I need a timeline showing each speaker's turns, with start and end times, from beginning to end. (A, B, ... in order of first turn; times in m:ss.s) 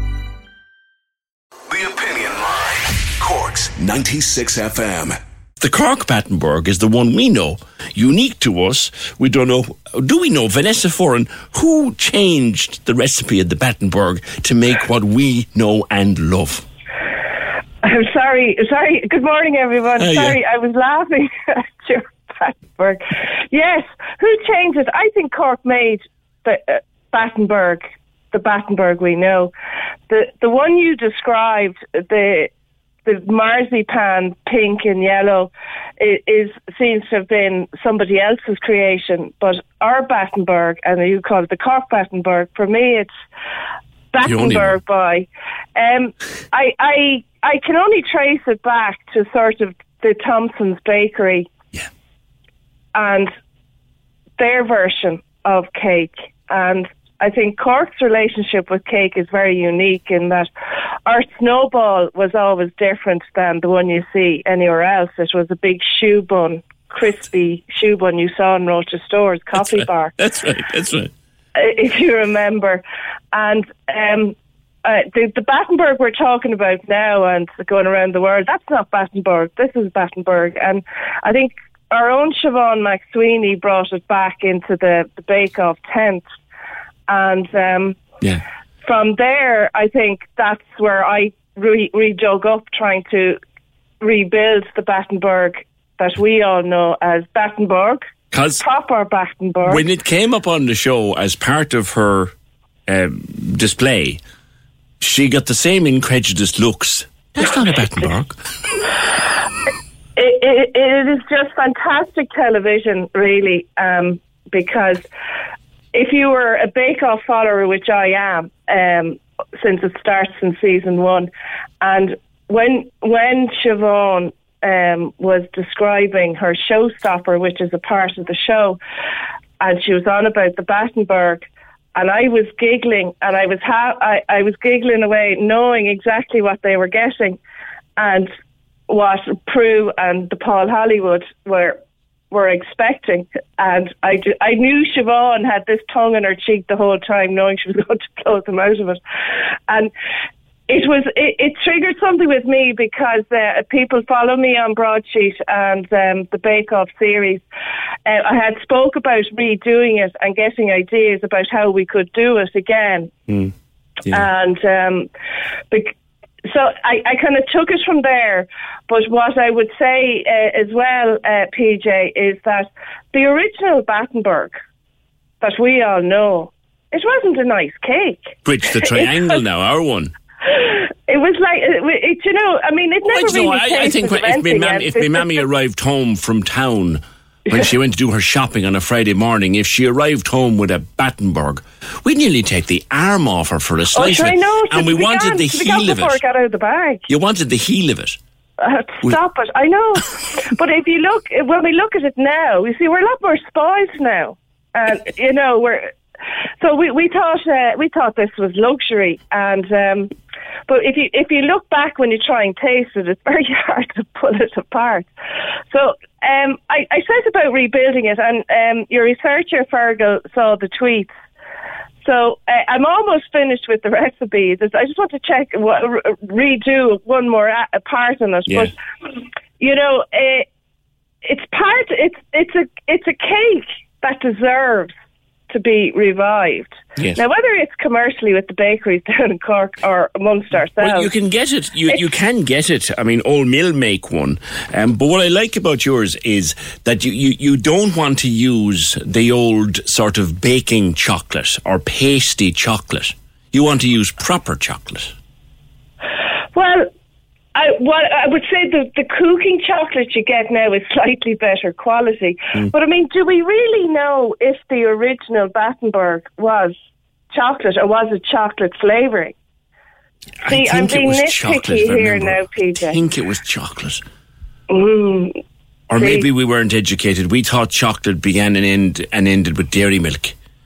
0:01.7-0:05.2 A
0:05.6-0:16.6 B
0:17.8-0:29.5 C
0:20.0-0:20.4 B
0:30.1-0:32.5 C
0:33.0-0:43.1 C
0:44.1-0:51.5 C
0:44.2-0:44.8 B
0:52.9-0:53.3 C
0:54.4-1:00.5 C
1:01.1-1:10.1 C
1:09.6-1:11.1 B
1:11.6-1:26.2 C
1:27.1-1:28.0 C
1:28.8-1:33.4 C
1:34.0-1:38.0 C
1:38.3-1:38.6 B
1:38.6-1:39.8 C
1:39.7-1:42.3 B
1:42.9-1:44.2 B
1:45.0-1:48.4 B
1:50.2-1:55.0 C
1:55.9-2:01.3 C
2:01.8-2:08.8 C
2:09.6-2:17.4 C
2:18.0-2:18.3 C
2:18.9-2:21.8 C
2:22.3-2:29.0 C
2:30.7-2:37.4 C
2:38.1-2:43.1 C
2:44.1-2:45.1 C
2:45.7-2:54.6 C
2:55.4-2:59.4 C
2:58.4-3:00.1 B
3:00.4-3:05.4 C
3:03.1-3:16.2 B
3:13.9-3:17.0 C
3:17.1-3:18.2 B
3:18.6-3:25.9 C
3:26.6-3:30.1 C
3:30.7-3:35.1 C
3:35.7-3:41.1 C
3:42.0-3:48.7 C
3:48.5-3:48.7 B
3:49.6-3:50.5 C
3:51.2-3:54.9 C
3:55.5-4:01.1 C
4:00.8-4:15.2 B
4:16.5-4:16.9 C
4:17.6-4:26.8 C
4:27.3-4:29.4 C
4:30.4-4:34.0 B
4:30.5-4:33.0 C
4:34.7-4:35.4 C
4:35.9-4:40.4 B
4:36.0-4:36.3 C